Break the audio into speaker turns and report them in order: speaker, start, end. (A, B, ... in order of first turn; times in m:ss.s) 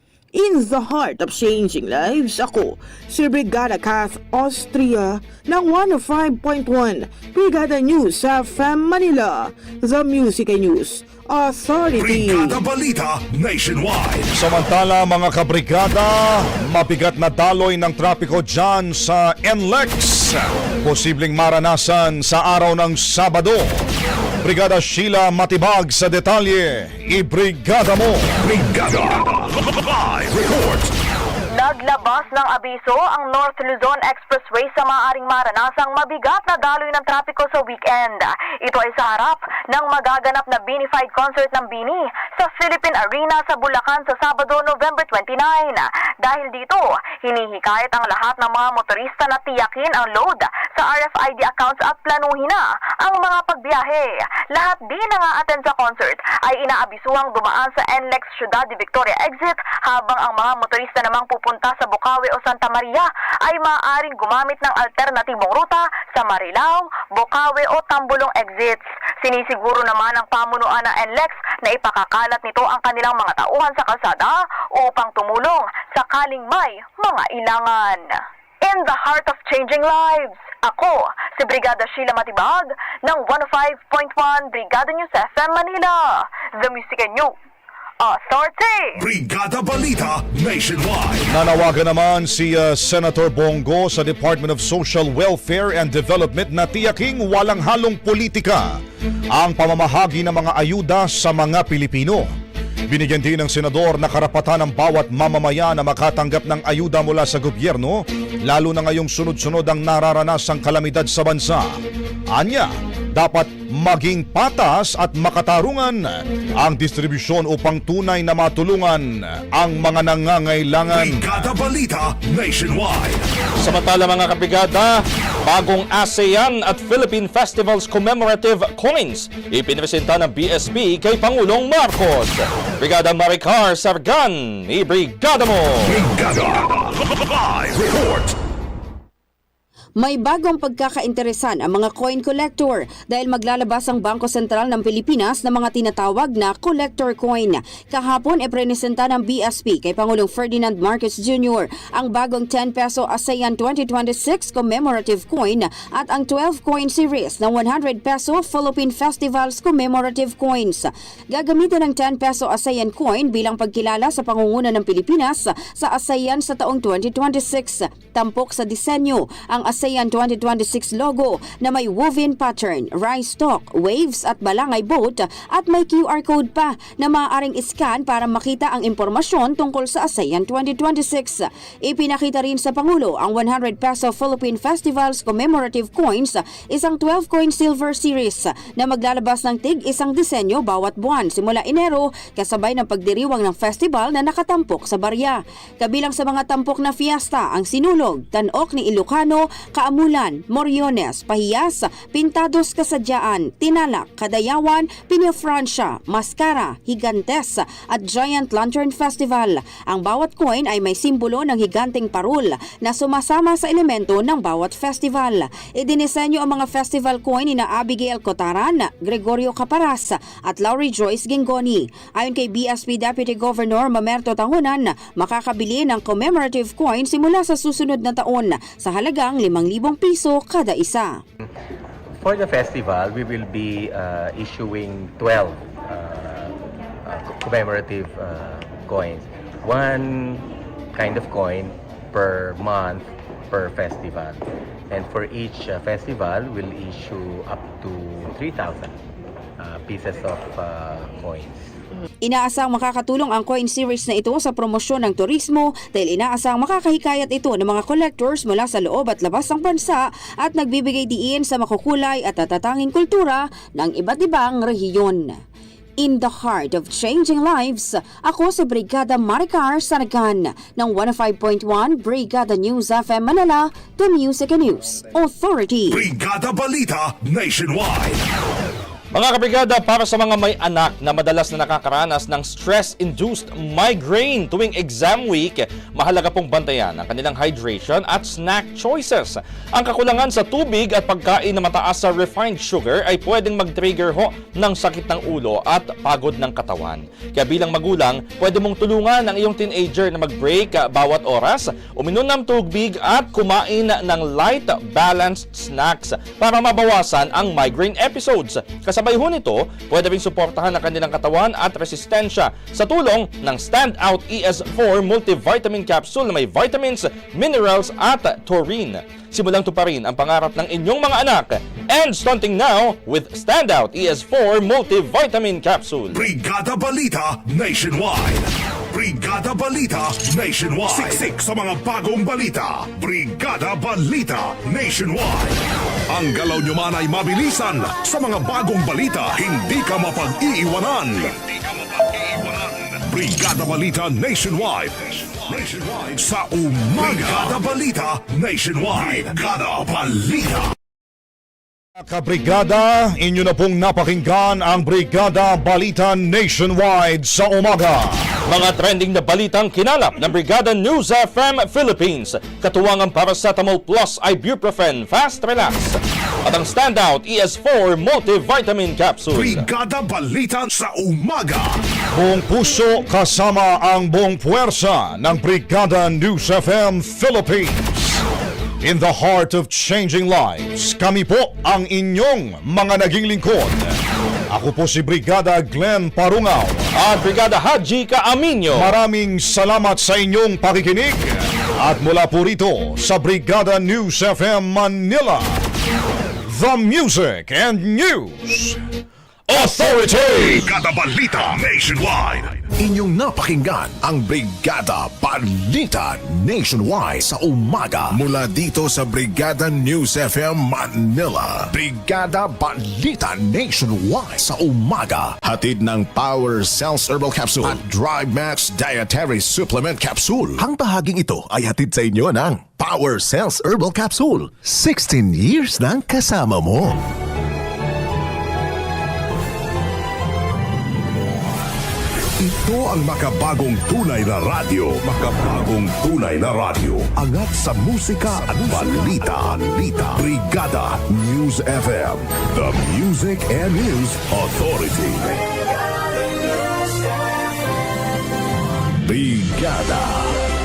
0:00.3-0:12.6 A
0:12.0-0:14.3 B
0:14.4-0:23.8 C
0:24.4-0:28.3 C
0:28.4-0:30.9 B
0:31.5-1:27.3 D
1:28.0-1:29.0 D
1:29.0-1:31.3 B
1:31.3-1:38.6 C
1:39.4-1:42.3 C
1:42.9-1:51.7 C
1:52.3-2:01.5 C
2:00.9-2:03.2 B
2:03.6-2:16.0 E
2:15.8-2:18.3 B
2:20.0-3:51.1 F
3:52.2-4:08.9 G
4:09.6-4:11.5 G
4:12.2-4:25.4 F
4:26.0-4:36.0 F
4:35.9-4:38.2 B
4:39.1-5:26.3 E
5:26.1-5:35.6 B
5:36.1-5:50.7 B
5:52.0-5:58.2 C
5:58.5-6:09.6 E
6:09.3-6:11.8 B
6:12.1-6:18.2 C
6:18.8-6:23.9 C
6:24.5-6:26.8 C
6:27.0-6:28.9 E
6:28.7-6:35.6 C
6:36.5-6:38.8 C
6:39.5-6:40.7 E
6:39.5-6:40.6 C
6:40.5-6:42.6 B
6:42.8-7:07.0 H
7:12.4-7:19.6 B
7:17.2-7:17.6 H
7:18.3-7:20.2 H
7:20.1-7:25.4 B
7:29.0-7:30.4 H